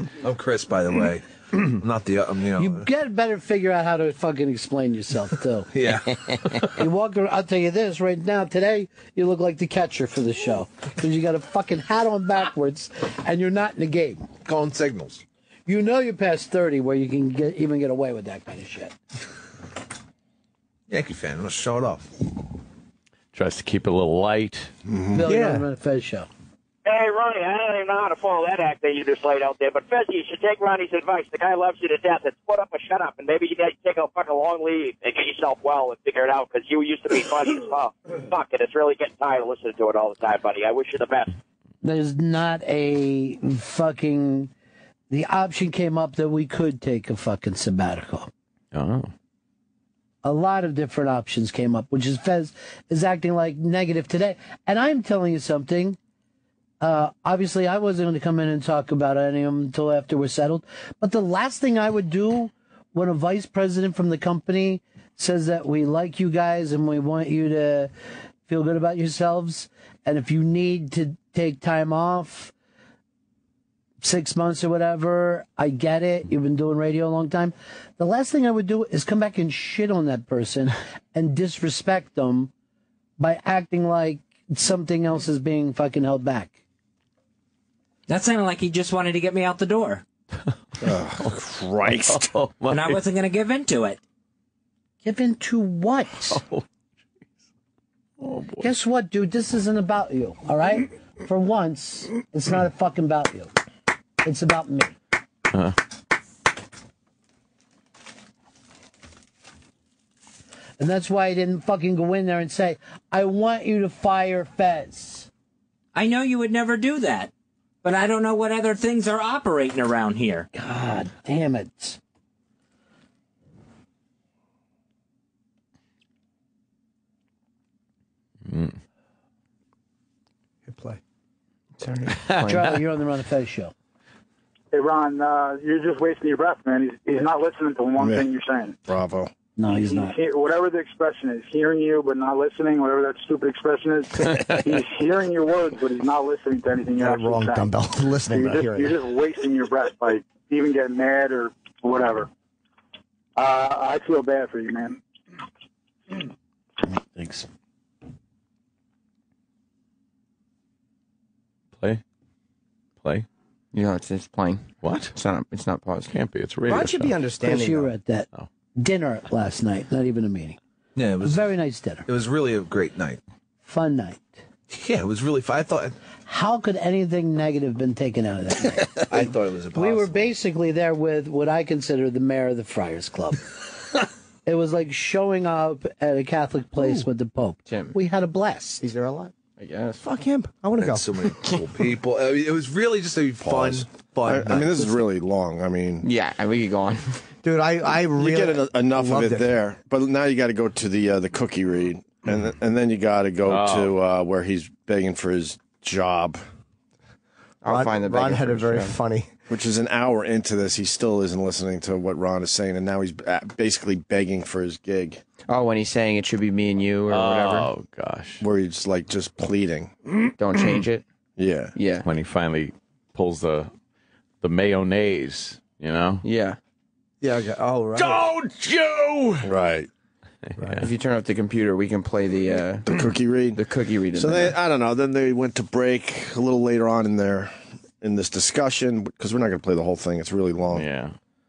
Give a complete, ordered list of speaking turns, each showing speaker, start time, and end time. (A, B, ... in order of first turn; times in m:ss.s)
0:00.2-0:02.9 A
0:02.6-0:05.7 B
0:05.7-0:06.7 A
0:06.8-0:14.3 B
0:14.4-0:15.2 A
0:15.7-0:19.0 B
0:20.9-0:22.1 A
0:23.3-0:24.7 C
0:24.9-0:25.2 D
0:25.1-0:26.3 B
0:25.2-0:25.7 E
0:26.8-0:41.3 F
0:41.8-0:44.5 B
0:45.1-0:48.3 B
0:48.7-0:49.1 C
0:50.2-0:56.0 B
0:56.8-1:07.9 B
1:08.5-1:12.5 B
1:14.0-1:22.5 B
1:23.2-1:26.6 B
1:28.1-1:30.0 G
1:30.8-1:32.3 D
1:31.9-1:33.0 C
1:32.7-1:34.0 G
1:35.0-1:36.4 B
1:36.3-1:36.6 C
1:38.2-1:38.7 C
1:38.6-1:43.5 B
1:44.2-1:45.0 B
1:50.8-1:55.3 B
1:56.0-1:57.3 G
1:57.8-2:00.5 G
2:00.6-2:02.0 B
2:08.5-2:08.8 C
2:10.7-2:11.0 E
2:11.8-2:12.7 H
2:12.4-2:13.7 B
2:14.7-2:18.7 I
2:18.0-2:18.3 D
2:18.8-2:19.3 D
2:19.6-2:20.2 B
2:19.9-2:27.7 I
2:26.9-2:29.1 E
2:28.3-2:32.3 I
2:33.4-2:35.0 I
2:43.7-2:46.1 H
2:44.8-2:45.1 C
2:46.1-2:47.2 C
2:46.7-2:47.9 E
2:47.4-2:50.6 B
2:51.0-2:51.5 A
2:51.2-2:52.0 B
2:52.1-2:53.2 A
2:53.6-2:54.4 B
2:54.7-2:56.0 A
2:56.3-3:03.4 B
2:59.1-3:00.3 A
3:04.5-3:08.8 B
3:07.7-3:08.0 H
3:08.8-3:09.3 E
3:09.6-3:10.0 H
3:10.0-3:11.3 E
3:10.8-3:15.0 A
3:13.4-3:16.1 D
3:16.0-3:17.2 H
3:17.4-3:19.5 E
3:18.2-3:26.4 D
3:23.5-3:23.9 C
3:27.6-3:29.0 H
3:27.7-3:29.3 E
3:29.5-3:35.2 D
3:35.5-3:37.7 H
3:37.1-3:38.4 C
3:38.4-3:39.9 D
3:40.4-3:41.0 H
3:41.4-3:41.7 D
3:41.8-3:42.1 H
3:42.0-3:43.7 C
3:44.4-3:46.2 C
3:46.2-3:46.6 H
3:47.2-3:48.3 E
3:48.0-3:49.4 A
3:49.4-3:49.9 D
3:50.5-3:50.9 C
3:50.8-3:53.0 H
3:52.9-3:53.6 D
3:53.5-3:54.6 H
3:54.1-4:00.9 D
4:00.7-4:01.2 C